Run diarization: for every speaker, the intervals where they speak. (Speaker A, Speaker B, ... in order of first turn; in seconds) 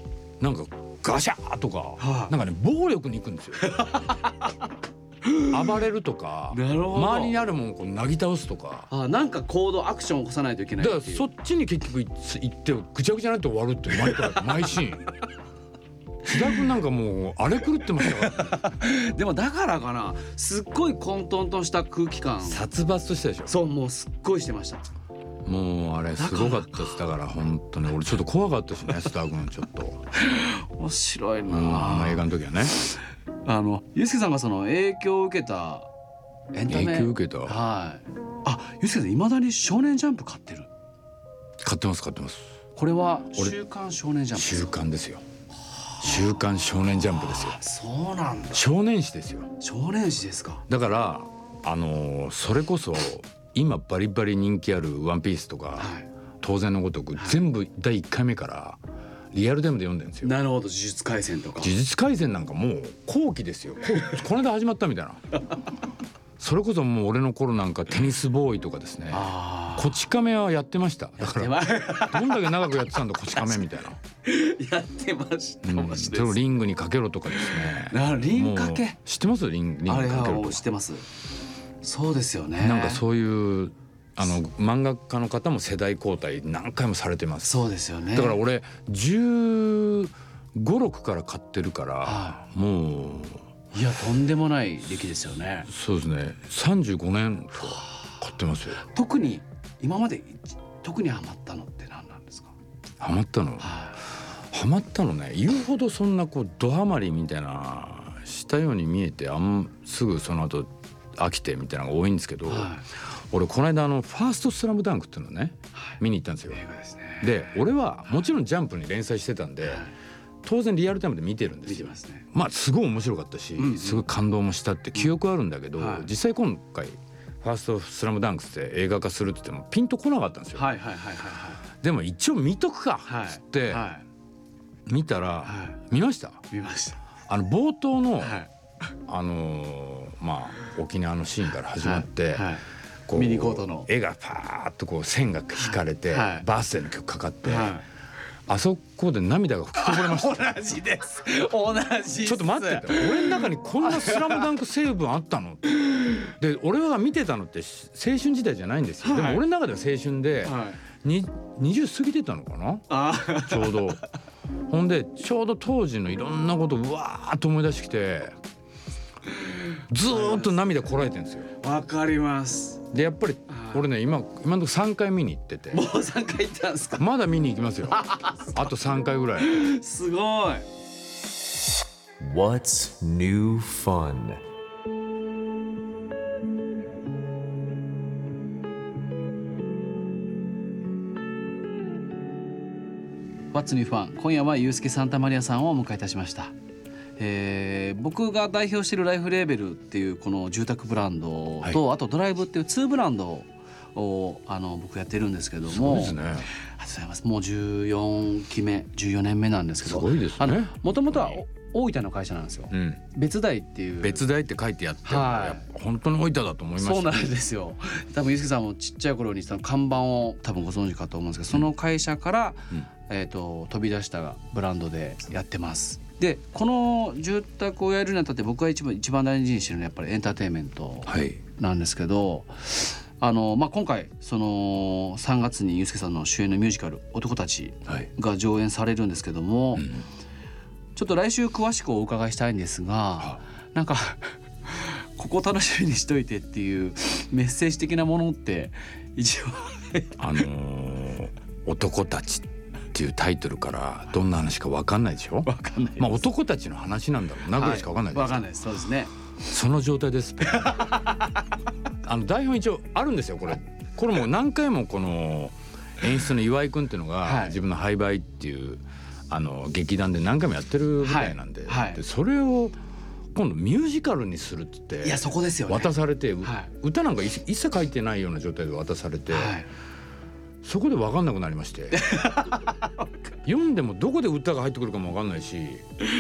Speaker A: 0.4-3.7, 5.4-8.9, 10.8-15.1, 16.2-18.6, 22.4-23.5, 25.4-30.0, 31.5-32.8, 36.7-37.6, 41.6-42.5, 44.3-45.2, 46.0-47.6, 48.5-49.5, 50.7-58.8, 59.3-60.4, 61.6-65.2, 66.4-74.0, 75.6-80.6, 82.6-93.4, 95.7-98.8, 103.0-103.8, 104.4-116.6, 117.2-119.8, 120.4-130.7, 131.8-133.8, 134.9-136.4, 137.3-138.4, 139.1-142.5, 143.1-147.8, 148.5-150.6, 152.2-164.0, 164.7-168.4, 169.9-171.5, 172.9-175.8, 177.0-179.7, 205.7-206.5, 209.8-211.4, 212.7-213.0, 214.0-217.3, 231.1-231.4, 250.2-258.4, 259.4-261.0, 262.0-272.8, 273.3-279.6, 280.6-282.0, 283.4-285.9
Speaker B: 2.0-2.4, 3.6-4.5, 5.2-5.6, 6.5-7.4, 8.9-11.3, 18.0-22.7, 23.5-24.9, 26.2-27.0, 30.1-35.9, 36.5-40.7, 42.8-44.7, 45.9-48.6, 49.6-50.6, 55.8-56.1, 60.2-61.7, 69.1-70.0, 71.2-72.7, 74.2-76.4, 77.3-79.0, 79.9-81.0, 81.8-83.0, 87.5-88.4, 92.0-92.4, 93.7-95.7, 98.8-102.5, 103.6-104.0, 112.5-112.9, 115.7-116.0, 116.5-117.4, 119.6-119.9, 121.7-122.3, 123.6-124.1, 125.8-126.1, 130.6-131.6, 133.1-134.0, 135.4-135.8, 136.5-137.0, 138.2-138.5, 141.8-143.9, 145.6-146.5, 147.4-147.8, 149.8-154.5, 159.0-159.4, 160.4-160.8, 162.9-163.9, 170.1-170.6, 171.6-172.8, 173.5-173.8, 175.7-177.1, 177.9-178.5, 179.4-180.7, 193.5-196.5, 197.2-214.2, 215.1-215.7, 216.8-239.9, 241.0-250.2, 255.4-256.3, 257.5-259.1, 260.5-261.4, 267.2-267.6, 271.0-272.0, 275.0-276.7, 279.3-279.7, 281.9-283.1
Speaker C: 182.2-184.4